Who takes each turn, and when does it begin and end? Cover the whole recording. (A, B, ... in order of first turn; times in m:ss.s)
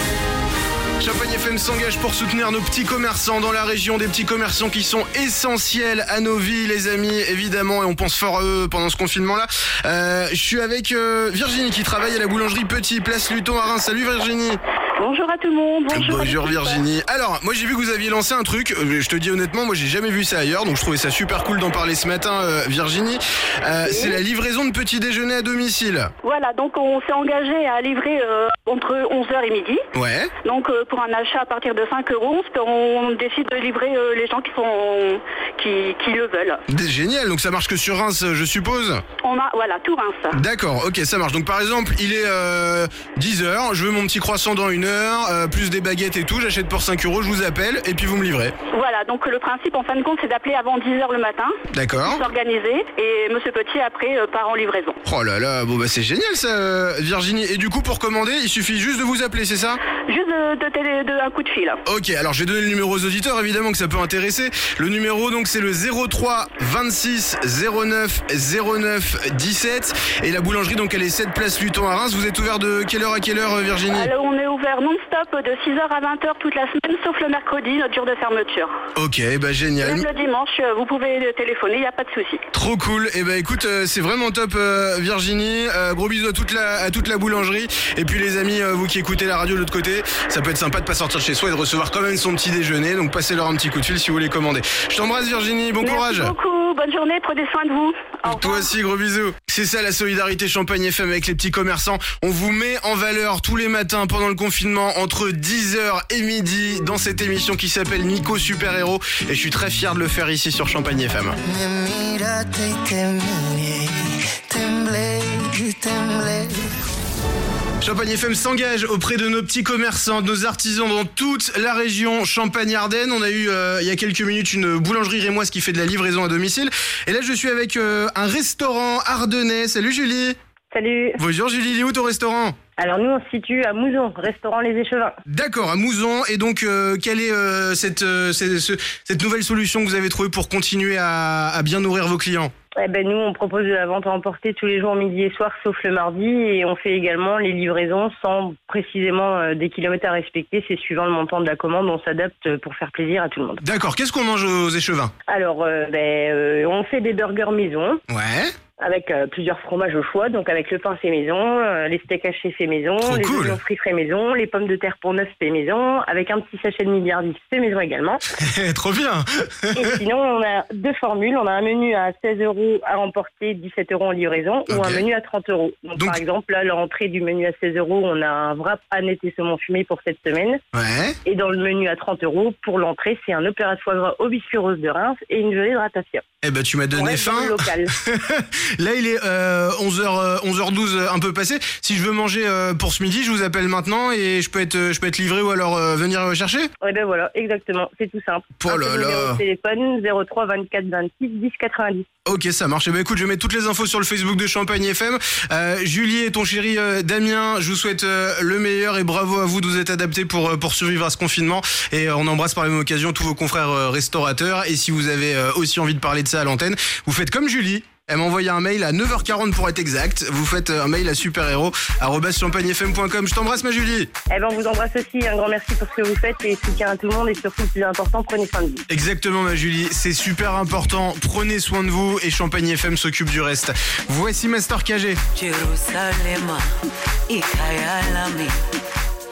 0:01.0-0:14.6 A
0:15.0-0:16.8 B
0:15.9-0:26.1 A
0:23.9-0:24.2 B
0:26.2-0:29.8 B
0:29.9-0:30.3 A
0:30.4-0:36.6 B
0:36.7-0:39.0 A
0:39.2-0:40.4 B
0:40.3-0:48.5 A
0:48.7-0:55.0 B
0:51.7-0:52.2 A
0:55.0-0:59.8 A
1:00.0-1:01.8 B
1:01.8-1:14.1 A
1:13.9-1:18.7 B
1:18.9-1:20.0 A
1:19.8-1:22.4 B
1:22.5-1:36.3 A
1:35.8-1:38.7 B
1:38.2-1:51.4 A
1:51.4-1:56.6 C
1:57.8-2:10.4 A
2:10.7-2:11.2 D
2:11.2-2:12.5 A
2:12.8-2:15.2 D
2:15.2-2:22.5 A
2:22.8-2:33.6 D
2:33.6-2:35.1 A
2:35.3-2:38.0 D
2:38.1-2:38.5 A
2:38.8-2:48.2 D
2:43.0-2:43.6 A
2:48.4-2:50.0 A
2:49.7-3:00.6 D
2:54.7-2:55.0 A
3:00.7-3:01.2 A
3:01.2-3:06.2 D
3:06.4-3:16.7 A
3:06.9-3:07.9 D
3:16.8-3:22.1 D
3:18.6-3:19.4 A
3:22.2-3:44.1 A
3:44.3-3:48.8 D
3:48.9-3:55.2 A
3:55.4-3:56.6 E
3:57.3-3:58.5 E